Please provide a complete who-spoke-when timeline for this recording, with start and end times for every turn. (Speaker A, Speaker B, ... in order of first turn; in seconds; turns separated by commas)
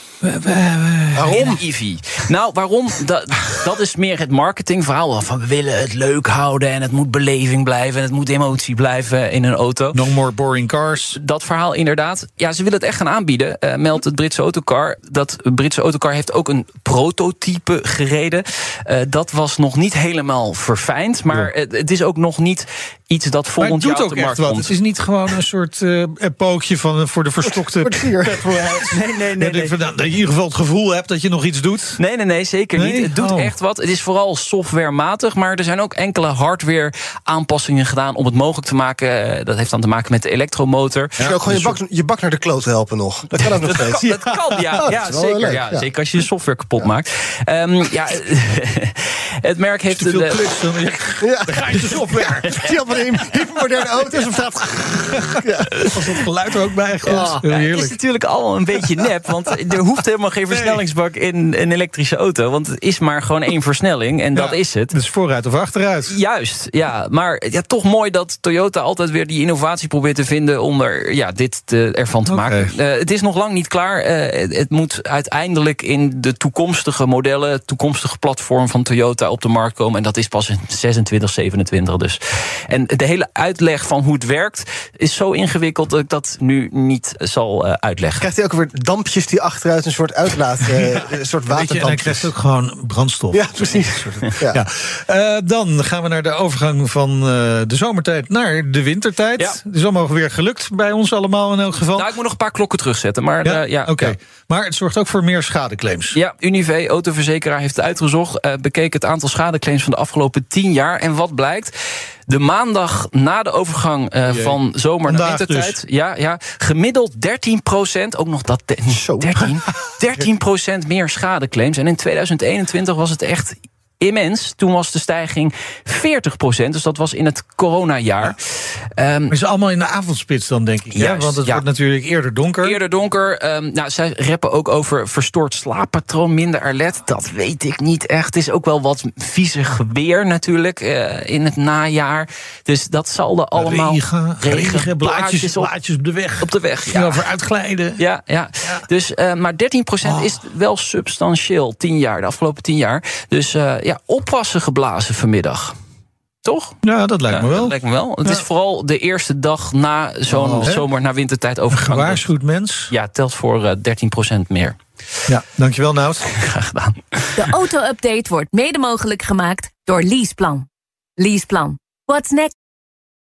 Speaker A: 0.2-1.6, Speaker B: 1.3-1.6, Speaker C: 1.3-10.0, Speaker A: 9.9-11.2, Speaker C: 11.1-24.8, Speaker A: 23.6-28.8, Speaker B: 27.8-28.8, Speaker C: 28.2-29.8, Speaker A: 29.4-32.0, Speaker C: 32.0-41.7, Speaker A: 32.7-33.5, Speaker A: 41.2-41.8, Speaker B: 41.2-45.9, Speaker C: 43.4-51.2, Speaker A: 49.9-52.5, Speaker B: 51.2-56.1, Speaker C: 52.5-52.7, Speaker A: 55.9-58.0, Speaker C: 57.0-64.9, Speaker B: 57.1-57.4, Speaker A: 60.5-60.8, Speaker A: 64.3-66.1, Speaker C: 66.0-88.3, Speaker A: 72.3-72.7, Speaker B: 88.2-92.3, Speaker A: 91.5-102.1, Speaker B: 93.3-94.6, Speaker C: 101.9-104.2, Speaker A: 103.4-106.2, Speaker C: 106.1-111.7, Speaker C: 112.3-129.3, Speaker A: 114.2-115.8, Speaker B: 118.9-119.3, Speaker A: 129.3-132.8, Speaker C: 130.9-131.7, Speaker C: 132.6-145.7, Speaker A: 143.5-148.0, Speaker C: 146.4-147.2, Speaker C: 148.0-155.7, Speaker A: 150.0-150.4, Speaker C: 156.4-156.8, Speaker A: 156.8-158.4, Speaker C: 157.3-162.3, Speaker A: 160.3-160.8, Speaker A: 161.7-162.9, Speaker C: 162.9-164.8, Speaker A: 165.3-166.3, Speaker C: 166.3-167.5, Speaker D: 167.3-170.7, Speaker D: 171.2-172.5